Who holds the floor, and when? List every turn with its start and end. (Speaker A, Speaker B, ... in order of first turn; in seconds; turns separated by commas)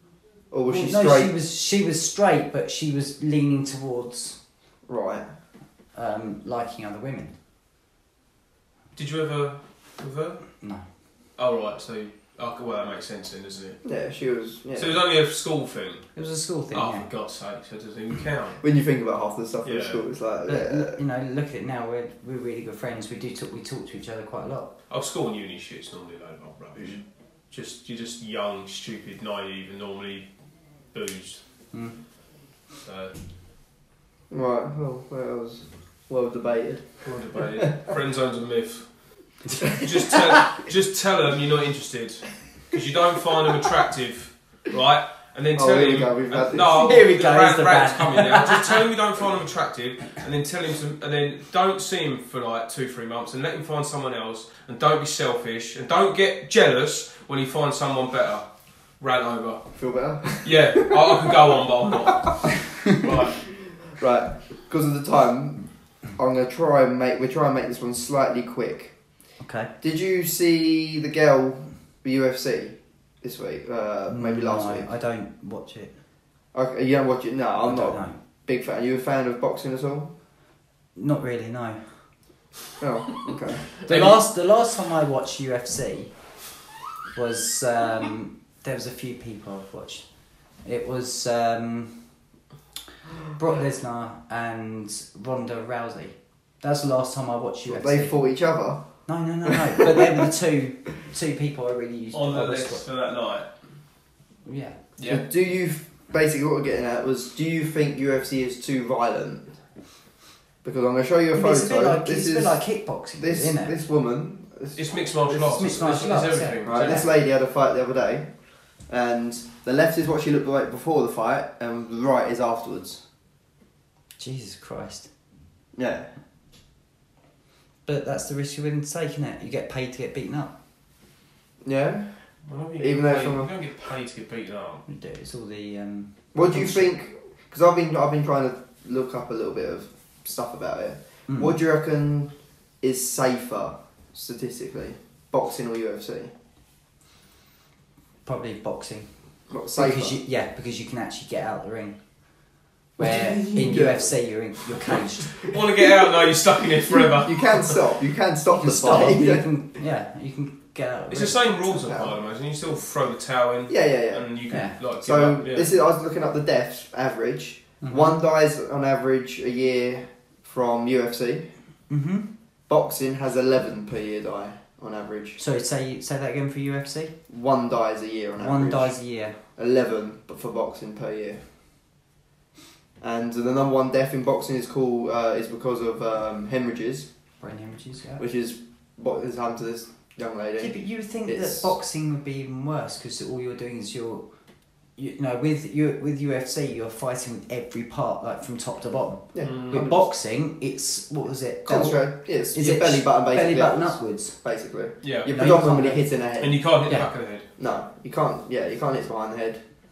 Speaker A: 0.5-1.3, Speaker B: 0.7-4.4, Speaker A: 4.9-5.3, Speaker B: 5.9-7.3, Speaker C: 8.9-10.4, Speaker C: 11.4-13.8, Speaker A: 13.8-15.0, Speaker C: 14.7-16.1, Speaker B: 16.1-17.1, Speaker C: 16.7-18.6, Speaker A: 18.6-21.0, Speaker C: 19.6-20.0, Speaker B: 20.5-24.7, Speaker C: 24.9-30.3, Speaker C: 30.9-31.4, Speaker B: 31.7-32.0, Speaker C: 32.8-33.1, Speaker A: 34.3-37.6, Speaker C: 37.0-39.0, Speaker C: 39.7-58.5, Speaker A: 45.5-46.9, Speaker B: 46.7-48.8, Speaker C: 59.0-59.7, Speaker A: 59.8-61.3, Speaker C: 60.4-63.4, Speaker A: 63.3-68.9, Speaker B: 69.4-69.7, Speaker A: 69.8-74.9, Speaker B: 74.1-76.0, Speaker A: 76.5-80.1, Speaker B: 77.6-78.2, Speaker B: 81.0-82.0, Speaker A: 82.8-83.7, Speaker B: 83.8-86.1, Speaker C: 83.8-84.2, Speaker B: 87.1-90.0, Speaker B: 90.6-92.0, Speaker B: 93.3-98.2, Speaker A: 97.7-98.8, Speaker B: 99.0-102.8, Speaker A: 99.5-99.9, Speaker C: 102.1-103.5, Speaker B: 104.4-104.8, Speaker C: 105.0-105.2, Speaker A: 105.0-109.6, Speaker A: 110.6-112.6, Speaker B: 111.3-113.7, Speaker A: 113.2-115.6, Speaker C: 114.7-117.1, Speaker B: 115.3-117.1, Speaker A: 116.6-118.3, Speaker A: 118.9-123.0, Speaker B: 124.2-125.1, Speaker A: 125.7-126.1, Speaker B: 127.8-130.5, Speaker A: 131.6-132.2, Speaker C: 132.4-134.8, Speaker A: 132.8-133.5, Speaker B: 134.9-136.9, Speaker A: 136.3-146.3, Speaker B: 141.3-141.6, Speaker B: 148.2-149.1, Speaker A: 149.5-150.2, Speaker B: 149.7-152.0, Speaker B: 153.0-155.4, Speaker A: 153.0-154.2, Speaker A: 154.7-155.5, Speaker C: 155.5-157.7, Speaker A: 156.9-159.5, Speaker B: 158.5-161.4, Speaker C: 161.1-165.7, Speaker A: 161.7-162.1, Speaker A: 163.7-164.3, Speaker B: 164.5-164.8, Speaker A: 165.0-171.5, Speaker B: 167.8-168.2, Speaker B: 171.9-172.3, Speaker A: 172.7-175.4, Speaker B: 175.4-177.1, Speaker A: 177.3-179.0, Speaker B: 178.4-179.4, Speaker A: 179.6-181.4, Speaker A: 183.0-187.1, Speaker B: 187.4-188.2, Speaker A: 188.2-191.7, Speaker B: 190.6-194.2, Speaker B: 194.9-204.4, Speaker A: 199.3-200.1, Speaker C: 199.4-199.8, Speaker A: 201.7-206.6, Speaker C: 205.0-205.4, Speaker B: 205.3-206.1, Speaker C: 206.4-207.5, Speaker A: 207.6-209.6